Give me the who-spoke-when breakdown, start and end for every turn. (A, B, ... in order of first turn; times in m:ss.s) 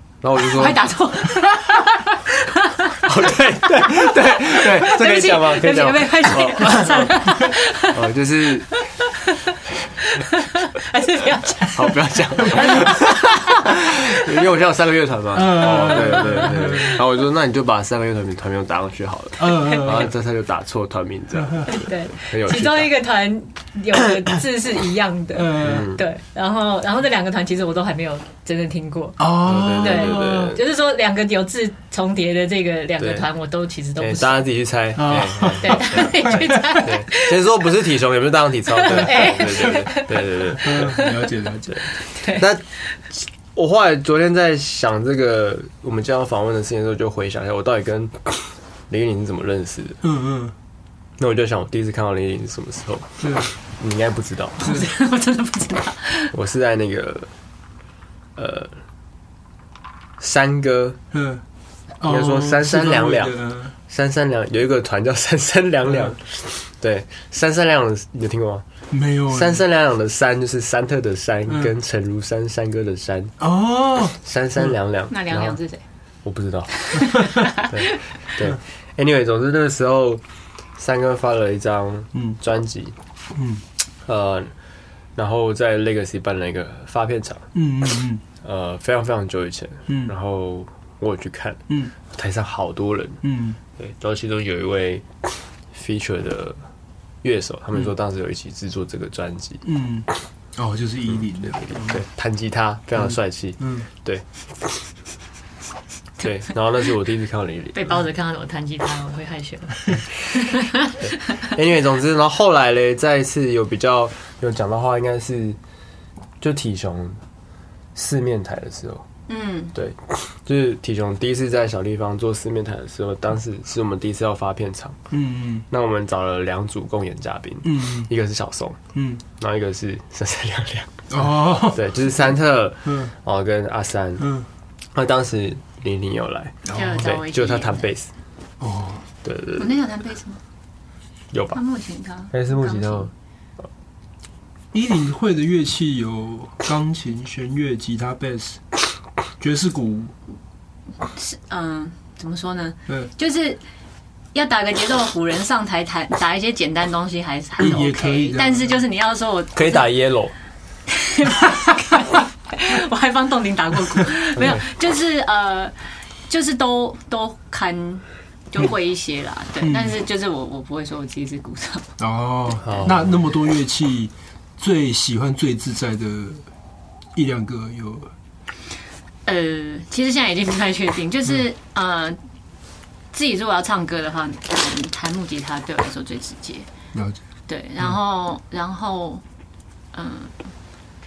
0:00.2-0:00.8 A
0:00.4-0:03.1 B
0:03.0-0:07.3 A
0:03.8-0:08.1 B
0:07.9-0:08.7 A
0:08.7-0:13.9 B
0:11.6-0:22.9 A
0:12.6-0:12.8 C
0:15.3-0:17.0 C
0:19.4-0:20.1 C
0:19.5-0:19.9 B
0:21.7-0:29.3 B
0:25.4-0:25.9 C
0:25.6-0:26.0 A
0:29.2-0:30.6 C
0:29.4-0:30.6 A
0:29.8-0:34.5 B
0:33.0-0:33.3 A
0:34.0-0:41.0 A
0:35.0-0:36.8 C
0:35.6-0:37.4 B
0:38.7-0:41.3 B
0:40.6-0:41.8 C
0:42.0-0:42.5 B
0:42.3-0:50.0 A
0:50.0-0:50.6 C
0:51.2-0:54.9 A
0:53.2-0:53.5 C
0:54.6-0:56.3 B
0:56.3-0:57.3 A
0:58.4-0:58.7 A
1:00.2-1:01.0 A
1:01.1-1:01.4 C
1:02.0-1:03.7 C
1:02.0-1:03.4 A
1:03.9-1:08.6 A
1:08.9-1:09.6 C
1:09.3-1:13.3 A
1:13.4-1:14.2 C
1:14.2-1:15.6 A
1:15.1-1:15.8 B
1:16.2-1:20.2 A
1:16.8-1:18.0 B
1:20.8-1:23.0 A
1:23.4-1:23.6 C
1:24.1-1:24.5 A
1:25.2-1:27.5 A
1:27.5-1:28.2 C
1:28.4-1:33.2 A
1:33.2-1:33.6 C
1:33.8-1:36.6 A
1:37.2-1:39.6 A
1:39.6-1:42.0 C
1:41.7-1:44.9 A
1:43.6-1:43.9 C
1:46.2-1:47.9 A
1:47.7-1:51.5 B
1:51.0-1:55.6 A
1:56.4-1:57.2 A
1:58.0-1:59.0 A
1:59.3-1:59.7 B
1:59.7-2:05.0 A
2:05.1-2:05.6 C
2:05.7-2:08.8 A
2:07.6-2:08.1 C
2:09.0-2:09.2 C
2:09.4-2:14.3 A
2:11.1-2:11.9 C
2:12.9-2:13.1 C
2:14.2-2:14.5 C
2:15.0-2:18.1 A
2:16.7-2:17.1 C
2:16.7-2:17.9 B
2:18.6-2:19.0 C
2:19.2-2:19.7 A
2:19.6-2:20.4 B
2:21.3-2:21.6 A
2:21.5-2:23.1 B
2:22.3-2:23.1 A
2:24.7-2:28.8 C
2:29.4-2:30.1 C
2:31.0-2:33.6 B
2:34.3-2:39.9 B
2:37.6-2:38.6 C
2:39.5-2:40.3 A
2:40.9-2:45.8 B
2:46.3-2:51.9 B
2:49.6-2:50.0 C
2:52.0-2:56.4 C
2:52.6-2:53.1 A
2:57.2-2:58.1 C
2:59.3-3:02.2 B
3:03.1-3:06.7 B
3:06.9-3:07.2 C
3:07.5-3:09.2 B
3:09.9-3:10.3 B